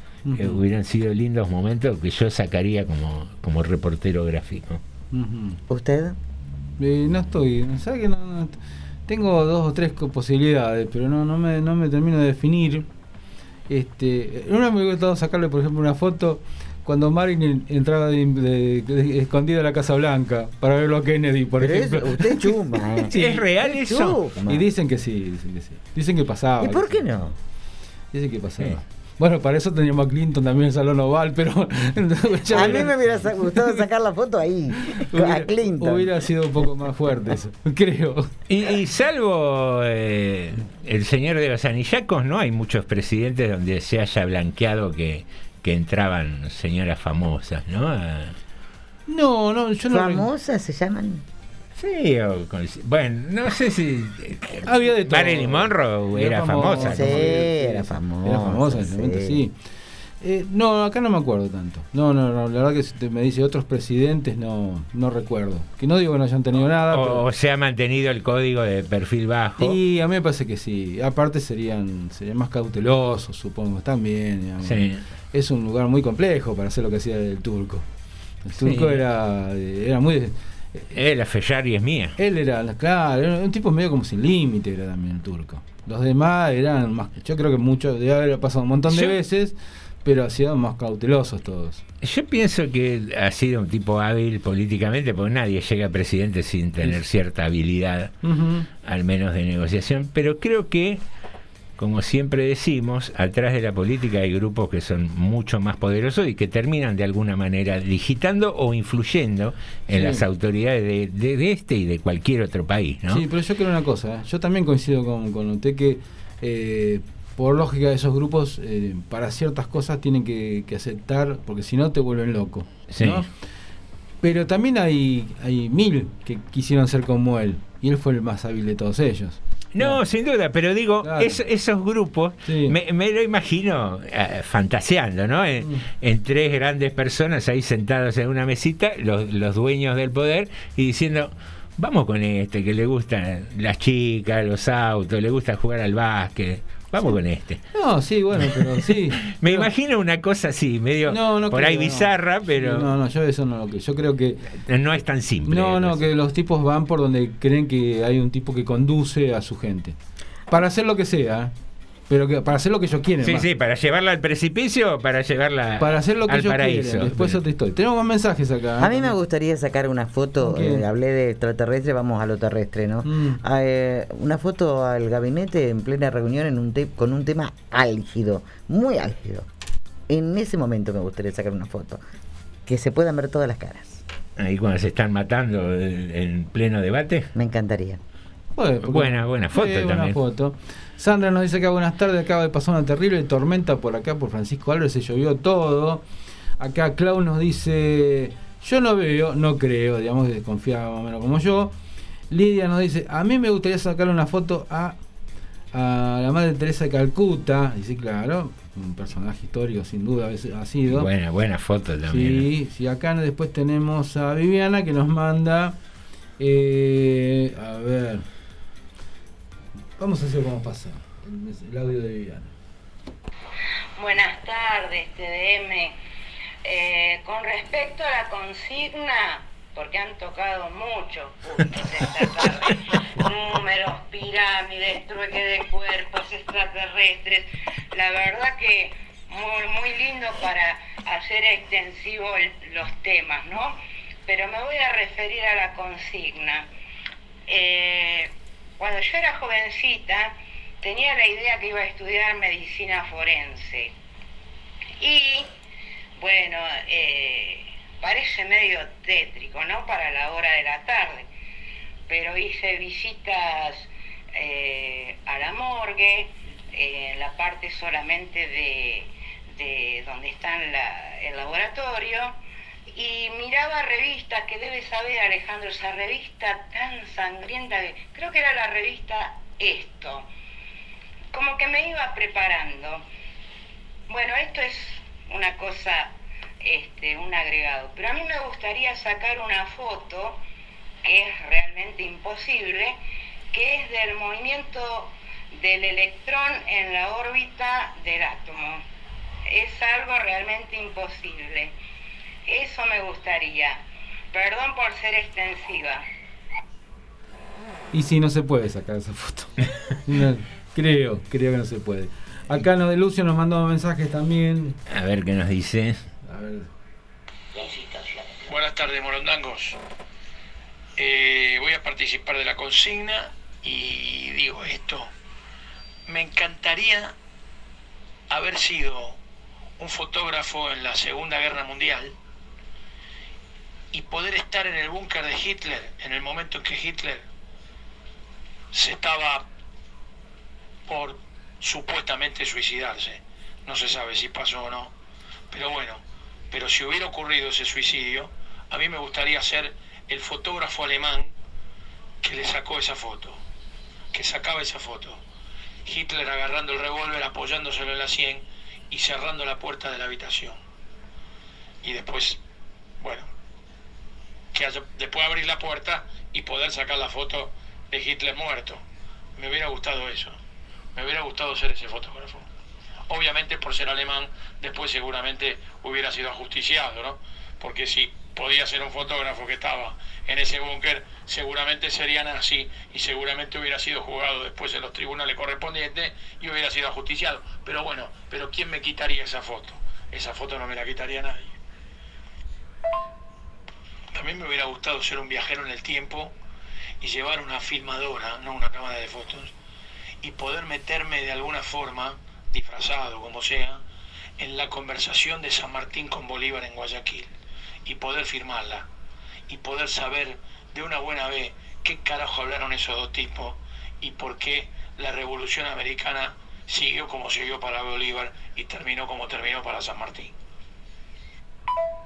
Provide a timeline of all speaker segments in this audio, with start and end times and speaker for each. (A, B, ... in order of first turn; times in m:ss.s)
0:00.2-0:00.6 A
0:00.4-0:04.8 B
0:05.1-0:05.6 A
0:05.7-0:06.2 C
0:06.8-0:12.9 A
0:13.7-0:23.4 A
0:21.6-0:24.6 C
0:23.1-0:24.2 B
0:24.5-0:27.0 A
0:26.6-0:27.4 C
0:28.1-0:33.8 A
0:32.5-0:36.1 C
0:32.5-0:32.9 B
0:34.9-0:38.3 A
0:38.5-0:48.4 B
0:49.1-0:50.3 A
0:49.9-0:51.2 C
0:51.8-0:57.4 B
0:54.6-0:59.5 A
0:56.8-0:59.4 C
1:00.2-1:07.2 A
1:06.9-1:09.8 B
1:09.6-1:17.8 A
1:14.6-1:15.0 B
1:18.4-1:20.8 A
1:18.6-1:19.0 B
1:20.9-1:22.2 B
1:22.2-1:31.8 A
1:28.9-1:29.2 B
1:32.0-1:38.1 B
1:38.2-1:38.7 A
1:38.8-1:41.0 B
1:41.8-1:53.2 B
1:49.9-1:50.2 A
1:53.1-2:03.3 A
2:02.9-2:03.2 B
2:04.2-2:10.0 A
2:09.7-2:27.6 B
2:11.0-2:11.4 A
2:12.4-2:12.7 A
2:27.7-2:29.7 A
2:28.4-2:32.9 B
2:31.1-2:34.4 A
2:34.6-2:36.0 B
2:35.5-2:39.9 A
2:40.5-2:41.5 A
2:42.1-2:43.5 A
2:43.2-2:47.4 B
2:45.8-2:49.1 A
2:48.8-2:59.5 C
2:50.4-2:50.8 A
2:53.0-2:53.4 A
3:00.1-3:02.0 C
3:02.7-3:04.0 C
3:04.4-3:07.3 B
3:07.3-3:08.0 C
3:08.6-3:16.0 A
3:08.8-3:10.2 B
3:16.6-3:21.7 A
3:22.3-3:25.0 A
3:25.7-3:31.1 A
3:30.9-3:32.4 B
3:32.1-3:35.8 A
3:36.4-3:38.2 A
3:40.0-3:42.5 A
3:44.0-3:45.9 D
3:46.6-4:06.7 D
4:07.5-4:13.9 D
4:15.0-4:15.5 D
4:16.2-4:21.3 D
4:22.1-4:32.4 D
4:32.9-4:40.3 D
4:41.3-4:43.0 D
4:44.1-4:50.4 D
4:51.0-4:53.0 D
4:53.5-4:58.8 D
4:59.5-5:01.7 D
5:02.5-5:03.8 D
5:04.3-5:06.0 D
5:07.9-5:14.8 A
5:14.9-5:16.0 B
5:16.2-5:16.7 A
5:18.4-5:19.8 E
5:21.0-5:25.1 E
5:26.1-5:27.1 E
5:28.3-5:29.2 E
5:29.8-5:32.1 E
5:33.9-5:37.2 E
5:38.7-5:39.4 E
5:40.9-5:44.9 E
5:45.5-5:51.3 E
5:52.2-5:53.4 E
5:54.1-5:55.2 E
5:55.8-6:00.6 E
6:01.8-6:02.4 E
6:03.0-6:03.3 E
6:04.5-6:08.8 E
6:09.4-6:10.4 E
6:10.9-6:12.4 E
6:13.1-6:31.5 E
6:34.1-6:36.3 E
6:37.0-6:39.5 E
6:40.2-6:43.8 E
6:44.4-6:47.3 E
6:47.8-6:48.8 E
6:49.5-7:00.3 E